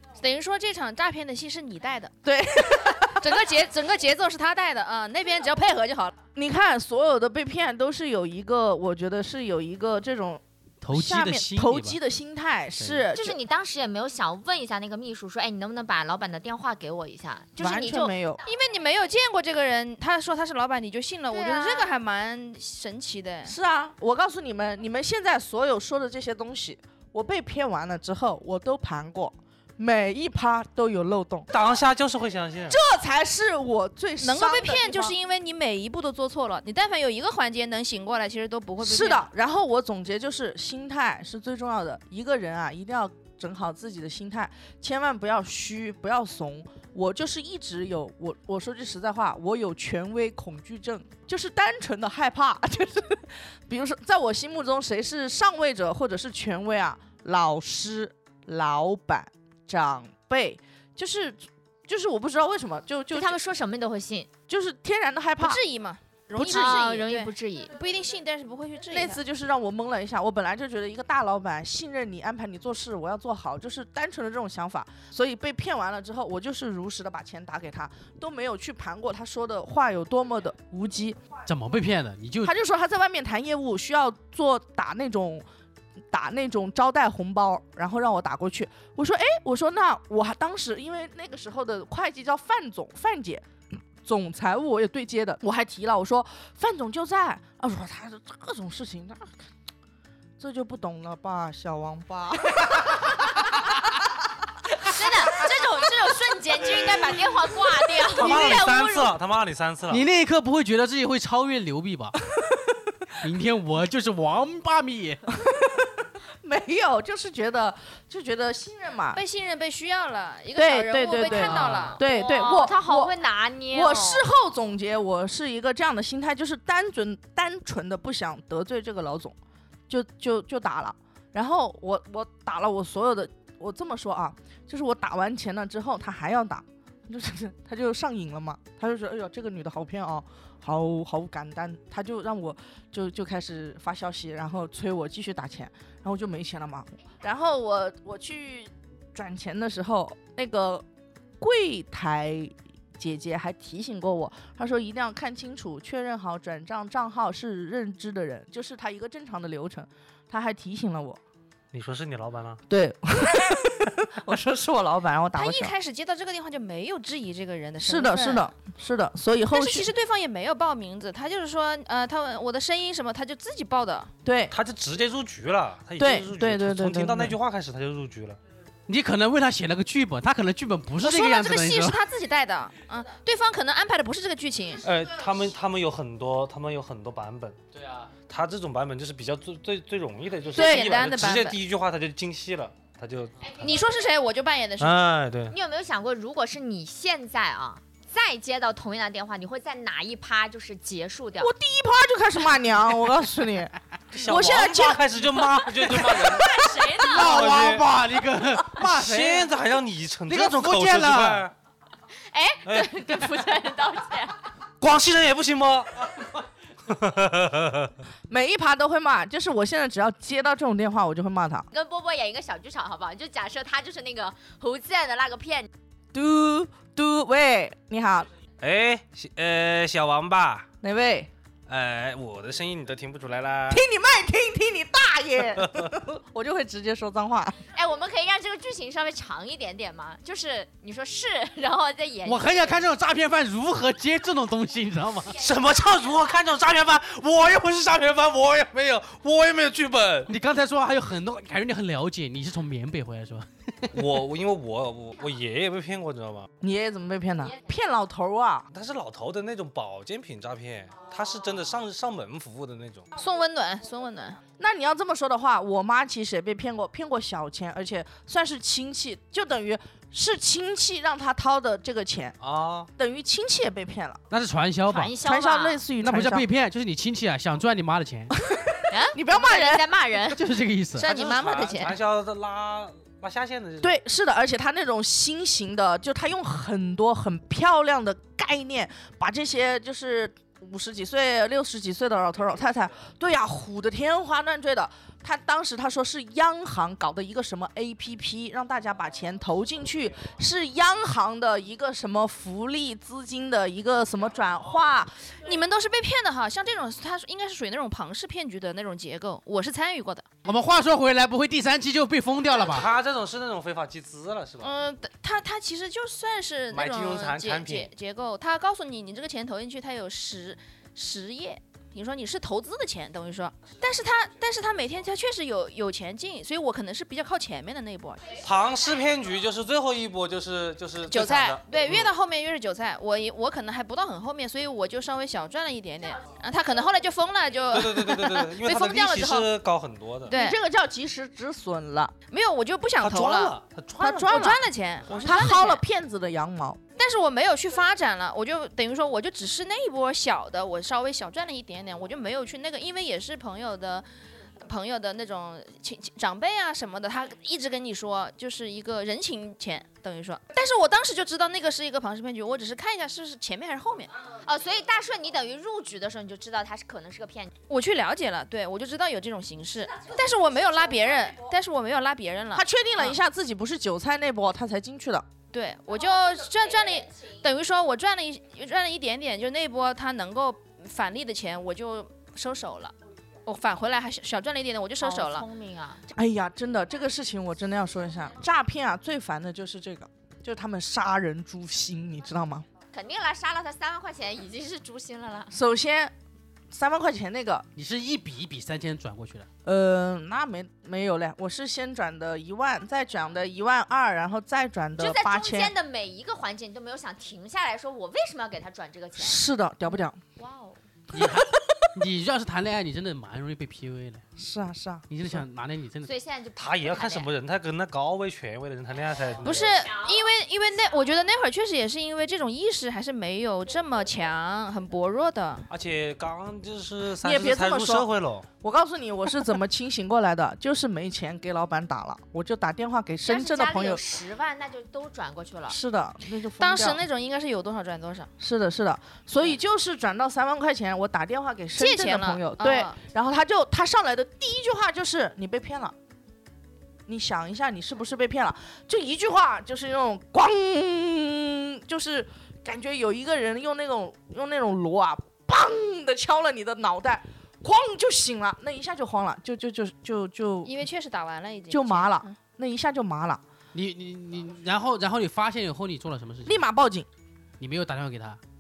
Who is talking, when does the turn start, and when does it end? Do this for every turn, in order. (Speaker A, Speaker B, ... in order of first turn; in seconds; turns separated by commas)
Speaker A: 0.2-2.1, Speaker B: 2.2-3.3, Speaker A: 3.2-6.2, Speaker B: 6.3-13.4, Speaker C: 10.8-12.0, Speaker C: 12.8-13.0, Speaker D: 13.1-18.1, Speaker B: 17.6-18.4, Speaker A: 18.4-23.6, Speaker D: 21.3-21.9, Speaker B: 23.4-31.5, Speaker E: 31.5-32.8, Speaker B: 32.7-35.1, Speaker A: 34.2-39.3, Speaker B: 38.8-63.4, Speaker D: 63.1-64.3, Speaker B: 64.5-65.6, Speaker A: 65.4-69.2, Speaker D: 66.4-67.7, Speaker B: 66.5-66.7, Speaker B: 68.9-81.2, Speaker C: 81.5-82.5, Speaker B: 82.4-85.5, Speaker B: 86.1-93.5, Speaker B: 94.0-99.3, Speaker B: 100.4-103.7, Speaker D: 104.8-109.1, Speaker E: 108.2-110.0, Speaker C: 109.9-112.3, Speaker C: 113.2-115.2, Speaker B: 115.4-119.2, Speaker A: 119.1-122.0, Speaker B: 120.6-123.1, Speaker C: 121.5-121.9, Speaker D: 121.7-124.3, Speaker B: 123.7-129.3, Speaker B: 129.9-150.8, Speaker B: 151.4-161.2, Speaker E: 161.7-162.6, Speaker B: 162.7-165.7, Speaker A: 165.3-168.5, Speaker B: 167.8-169.9, Speaker A: 169.5-174.1, Speaker B: 174.2-174.5, Speaker E: 174.5-178.4, Speaker B: 176.0-177.4, Speaker C: 178.9-182.0, Speaker A: 181.0-184.8, Speaker E: 184.8-193.6, Speaker A: 190.5-191.6, Speaker A: 193.6-195.0, Speaker E: 194.8-195.6, Speaker D: 195.5-201.5, Speaker B: 201.4-205.1, Speaker E: 204.1-207.9, Speaker B: 205.6-207.0, Speaker D: 206.4-207.2, Speaker C: 207.0-209.5, Speaker E: 208.8-211.5, Speaker C: 210.3-211.5, Speaker D: 212.3-214.4, Speaker E: 212.7-212.9, Speaker E: 214.8-216.3, Speaker E: 216.9-218.0, Speaker B: 218.3-221.7, Speaker D: 221.7-225.7, Speaker B: 226.1-228.3, Speaker E: 228.6-230.7, Speaker B: 230.8-231.3, Speaker E: 231.7-233.8, Speaker B: 233.7-237.6, Speaker E: 235.6-235.9, Speaker D: 237.7-242.8, Speaker C: 242.2-245.4, Speaker E: 245.3-250.3, Speaker C: 250.3-254.1, Speaker E: 253.9-256.5, Speaker B: 256.6-258.7, Speaker E: 258.7-263.1, Speaker A: 263.2-264.4, Speaker B: 264.6-272.4, Speaker E: 272.4-272.9, Speaker B: 273.0-274.2, Speaker C: 274.3-275.1, Speaker D: 274.9-275.8, Speaker B: 275.2-276.5, Speaker C: 276.0-278.3, Speaker B: 278.4-279.9, Speaker D: 278.9-280.4, Speaker C: 280.4-281.1, Speaker A: 281.0-282.0, Speaker E: 281.0-283.9, Speaker B: 283.8-305.3, Speaker A: 305.4-310.3, Speaker C: 310.4-312.9, Speaker E: 312.6-314.7, Speaker A: 314.6-328.4, Speaker E: 316.7-317.9, Speaker E: 328.4-332.1, Speaker A: 331.1-339.5, Speaker E: 337.7-340.3, Speaker A: 340.3-340.6, Speaker B: 340.3-342.1, Speaker A: 342.3-345.8, Speaker E: 343.0-344.4, Speaker B: 344.0-344.6, Speaker E: 345.1-345.5, Speaker B: 345.2-346.8, Speaker A: 347.0-354.1, Speaker A: 354.6-364.1, Speaker D: 364.4-367.5, Speaker A: 367.7-373.2, Speaker B: 372.5-375.3, Speaker A: 375.5-382.9, Speaker A: 383.5-385.5, Speaker D: 385.0-386.0, Speaker B: 386.1-392.6, Speaker D: 392.9-395.5, Speaker B: 395.5-396.1, Speaker B: 396.7-397.7, Speaker C: 397.8-399.5, Speaker B: 399.6-405.7, Speaker D: 405.0-409.4, Speaker B: 409.2-410.2, Speaker D: 410.4-410.8, Speaker C: 411.1-414.2, Speaker B: 411.1-411.9, Speaker B: 414.4-415.1, Speaker C: 415.1-416.1, Speaker D: 416.0-417.3, Speaker E: 416.6-419.8, Speaker A: 419.4-425.7, Speaker E: 425.7-428.5, Speaker B: 427.2-428.1, Speaker B: 428.6-434.0, Speaker D: 433.2-435.8, Speaker B: 435.7-437.0, Speaker A: 436.6-438.3, Speaker B: 438.4-445.9, Speaker A: 441.8-443.0, Speaker B: 447.1-460.7, Speaker A: 460.6-462.4, Speaker B: 461.7-463.4, Speaker C: 463.7-466.6, Speaker B: 466.4-467.1, Speaker C: 467.6-468.4